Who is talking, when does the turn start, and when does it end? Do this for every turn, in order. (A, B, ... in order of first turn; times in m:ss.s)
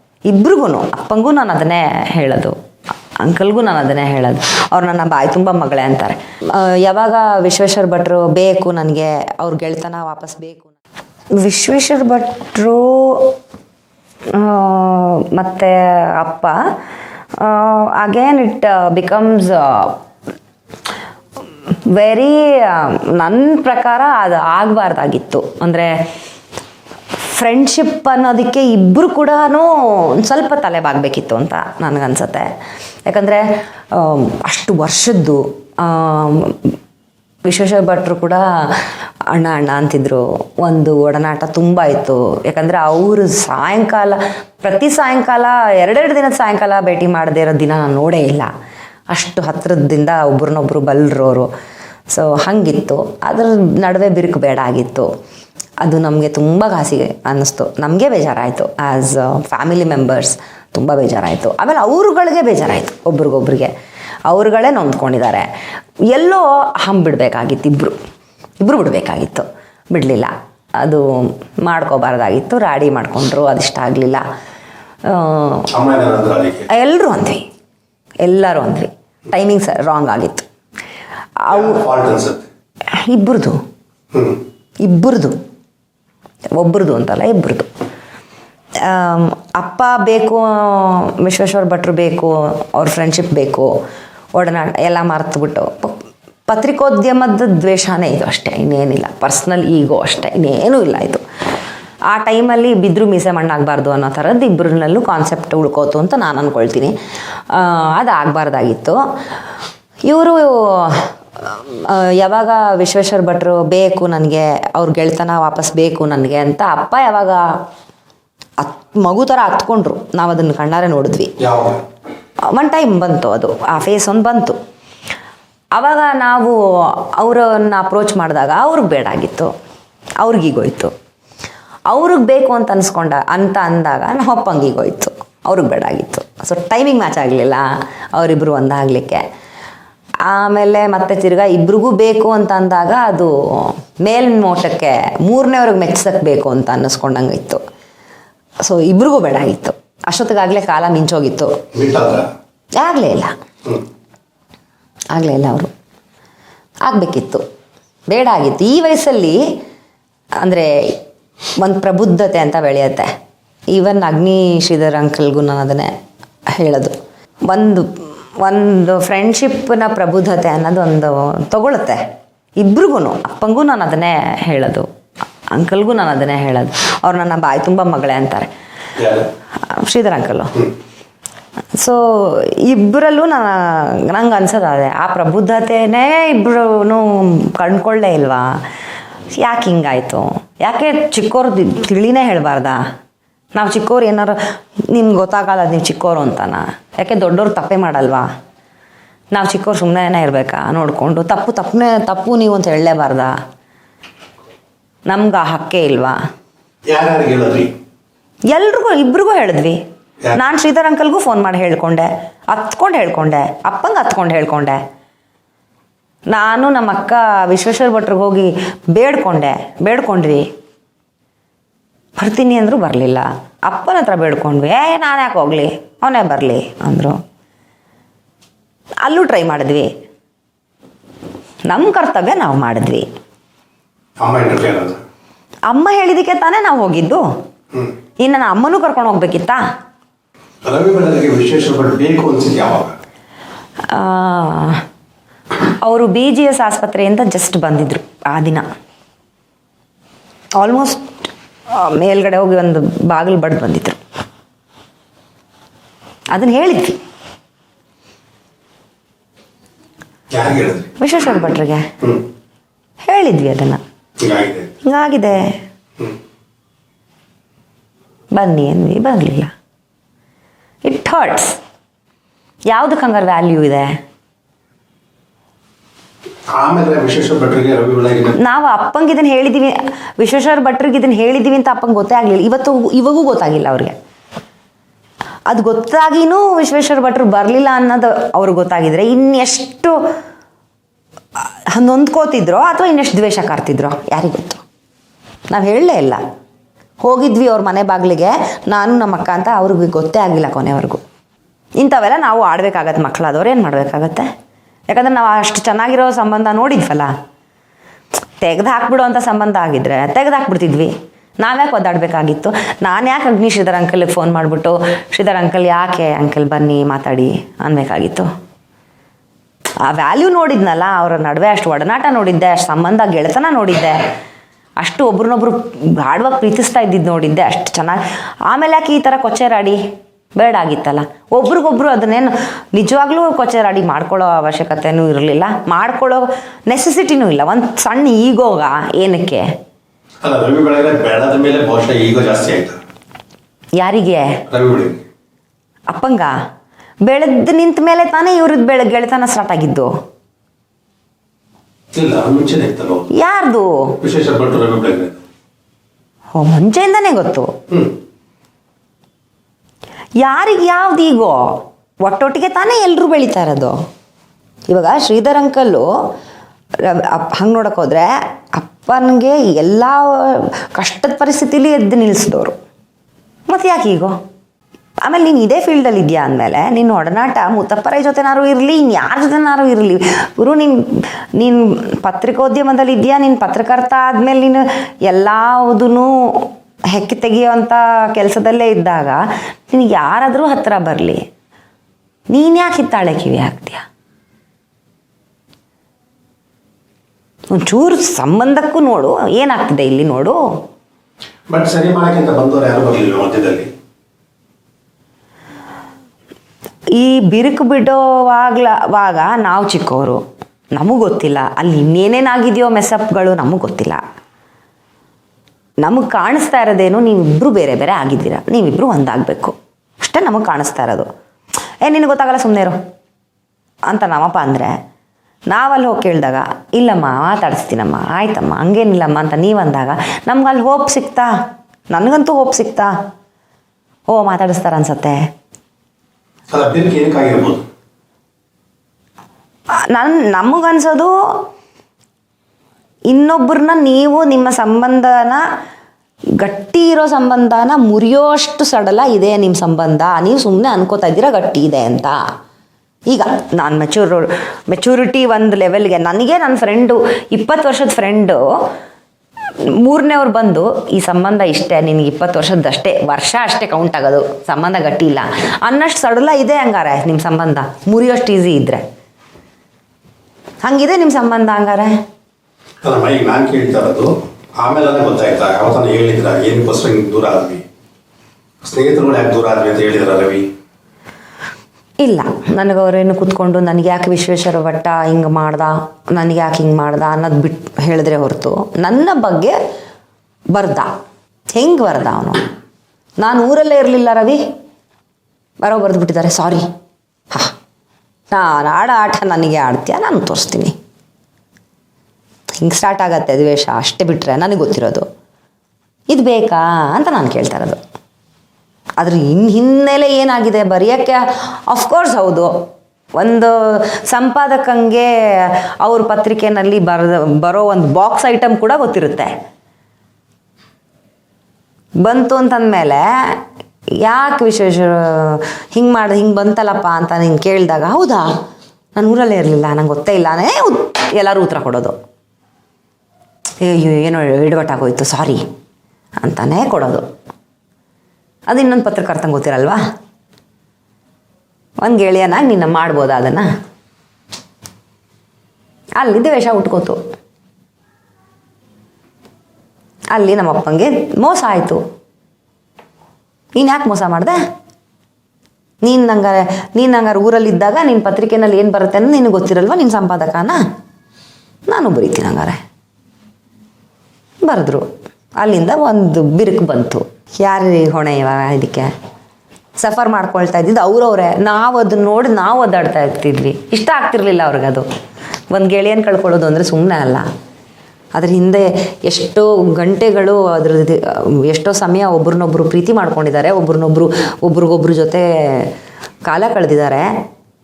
0:00.3-0:02.5 A
0:03.2-0:10.7 A
0:11.4-0:13.3 A
0:14.3-0:16.6 A
0:17.4-0:20.0 A
0:21.7-0:25.9 A
0:27.2-0:32.5 A
0:33.1-0:36.7 A
0:37.4-0:48.5 A
0:49.1-0:51.5 A
0:52.1-0:55.1 A
0:55.8-1:03.7 A
1:04.3-1:05.5 A
1:06.1-1:08.0 A
1:08.6-1:14.2 A
1:15.0-1:15.7 A
1:15.7-1:16.7 B
1:16.7-1:17.4 A
1:18.2-1:20.4 A
1:21.4-1:21.7 A
1:21.5-1:22.5 B
1:22.9-1:23.6 A
1:24.1-1:24.4 B
1:24.8-1:25.4 A
1:26.6-1:27.7 A
1:28.8-1:33.7 A
1:34.3-1:35.9 A
1:36.5-1:41.2 A
1:42.1-1:46.9 A
1:47.5-1:49.0 A
1:50.0-1:57.4 A
1:58.6-2:01.3 A
2:01.4-2:01.8 B
2:02.5-2:04.6 A
2:05.7-2:09.5 A
2:10.2-2:10.9 A
2:11.9-2:19.2 A
2:20.2-2:27.6 A
2:28.6-2:31.5 A
2:31.7-2:32.3 B
2:32.8-2:33.3 A
2:35.1-2:35.7 A
2:36.8-2:37.4 A
2:38.1-2:39.4 A
2:40.4-2:40.7 A
2:41.6-2:43.1 A
2:43.7-2:45.9 A
2:46.6-2:46.9 A
2:47.5-2:52.0 A
2:52.6-2:54.9 A
2:55.5-2:58.5 A
2:59.0-2:59.3 B
2:59.6-3:00.6 A
3:01.7-3:08.6 A
3:09.3-3:12.8 A
3:13.5-3:18.3 A
3:19.3-3:23.3 A
3:25.1-3:26.2 A
3:26.9-3:27.7 B
3:28.5-3:29.8 A
3:30.3-3:34.8 A
3:36.3-3:40.5 A
3:42.2-3:47.2 A
3:49.0-3:49.9 A
3:51.7-3:53.0 A
3:54.2-3:55.0 B
3:55.7-3:57.2 A
3:58.2-3:59.6 A
4:00.6-4:03.0 B
4:03.9-4:04.8 A
4:05.6-4:08.6 A
4:10.6-4:14.0 A
4:16.3-4:17.0 A
4:20.3-4:20.9 B
4:21.0-4:21.9 A
4:23.0-4:23.8 A
4:24.2-4:24.7 B
4:24.8-4:25.6 A
4:28.3-4:29.5 A
4:30.8-4:31.6 A
4:32.7-4:33.9 A
4:36.5-4:38.4 B
4:38.4-4:43.9 A
4:45.5-4:50.0 A
4:51.4-4:54.6 A
4:55.5-4:56.2 A
4:57.0-5:01.0 A
5:01.8-5:04.3 A
5:04.9-5:07.1 A
5:08.4-5:18.3 A
5:19.8-5:24.1 A
5:24.8-5:29.8 A
5:30.4-5:39.5 A
5:40.2-5:42.8 B
5:43.8-5:44.4 A
5:44.5-5:45.0 B
5:45.9-5:46.3 A
5:47.0-5:49.9 A
5:51.9-5:53.1 B
5:53.1-5:54.0 A
5:54.0-5:55.2 B
5:56.3-5:57.5 A
6:00.2-6:03.8 A
6:04.7-6:05.9 A
6:06.8-6:12.6 A
6:13.5-6:14.2 A
6:15.0-6:31.2 A
6:32.3-6:33.8 A
6:37.5-6:40.4 A
6:41.5-6:43.7 B
6:47.0-6:50.2 A
6:50.7-6:54.0 A
6:55.8-7:01.1 A
7:01.8-7:02.8 A
7:03.9-7:04.7 A
7:05.5-7:11.3 A
7:11.9-7:12.9 A
7:14.1-7:15.2 A
7:16.5-7:17.6 B
7:19.7-7:21.5 A
7:23.1-7:25.4 A
7:26.4-7:32.2 A
7:33.1-7:38.4 A
7:39.6-7:48.8 A
7:50.6-7:51.9 A
7:52.8-7:57.6 B
7:58.6-8:00.4 B
8:02.0-8:09.6 A
8:10.5-8:10.9 A
8:11.5-8:12.4 A
8:13.2-8:14.4 A
8:15.6-8:16.6 A
8:18.3-8:20.7 A
8:22.5-8:25.0 A
8:26.1-8:27.8 A
8:29.0-8:32.5 A
8:33.2-8:39.3 A
8:42.0-8:43.4 A
8:44.0-8:48.3 A
8:48.9-8:51.9 A
8:53.6-8:55.4 A
8:56.2-8:57.0 A
8:58.5-8:59.8 A
9:01.8-9:03.5 A
9:06.0-9:07.0 A
9:10.1-9:11.8 A
9:13.5-9:14.4 A
9:15.8-9:20.6 A
9:21.7-9:22.6 A
9:24.4-9:24.8 A
9:25.4-9:28.9 A
9:29.8-9:34.8 A
9:35.5-9:37.2 A
9:38.1-9:45.7 A
9:46.2-9:47.1 A